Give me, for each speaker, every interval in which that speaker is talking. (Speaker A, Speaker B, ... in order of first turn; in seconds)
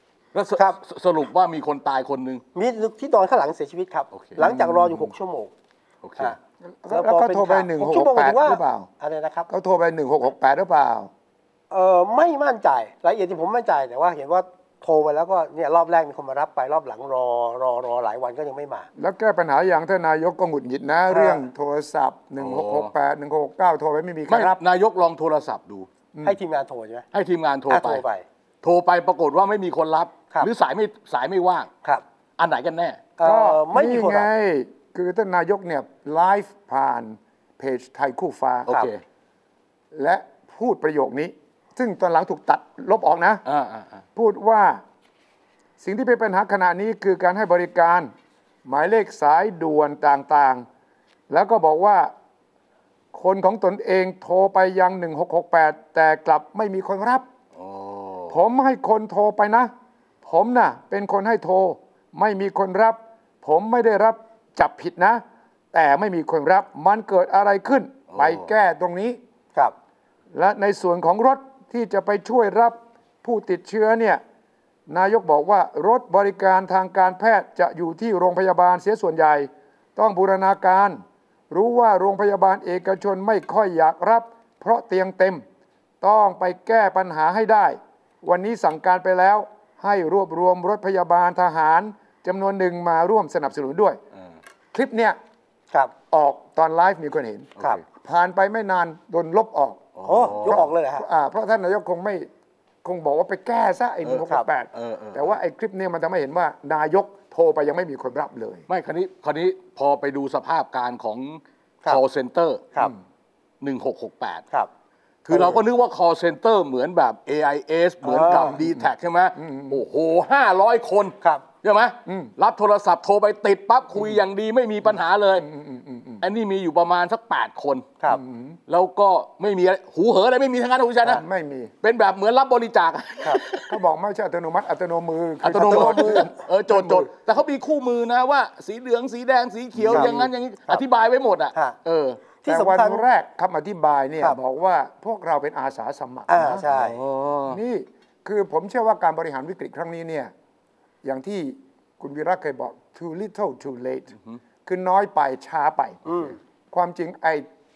Speaker A: 0.3-2.4, 4.1-4.4, 6.0-6.3, 22.4-22.9, 24.3-25.9, 27.1-28.0, 28.6-31.7, 32.4-33.0, 38.7-38.9, 43.5-44.0, 57.6-58.4, 68.1-68.5, 100.0-100.7, 104.0-105.4, 108.7-112.7, 113.6-114.5, 115.2-125.5, 126.2-127.9, 128.7-131.2, 131.8-133.8, 135.4-142.2, 146.7-147.6
Speaker B: 2.5-5.5, 6.9-9.5, 11.7-18.9, 21.1-21.4, 26.2-27.1, 27.7-28.2, 33.2-34.3, 100.0-101.1, 118.0-118.6, 139.9-140.8, 142.4-143.1, 146.3-147.0, 156.1-156.3
Speaker C: 4.4-5.1, 6.8-8.9, 9.5-11.1, 19.0-24.6, 33.2-38.7, 39.9-43.4, 44.2-44.8, 45.8-48.1, 48.6-50.6, 51.3-52.1, 53.1-57.3, 58.3-59.7, 60.2-69.2, 70.3-74.2, 74.9-85.4, 86.0-94.0, 94.7-95.2, 96.1-99.9, 100.5-102.3, 102.8-108.7, 115.3-115.6, 118.3-119.8, 122.1-122.3, 125.4-126.2, 128.1-128.6, 131.1-131.7, 133.7-137.1, 139.8-140.3, 142.5-146.7, 147.5-150.3, 151.0-154.1, 154.7-156.2, 156.7-157.5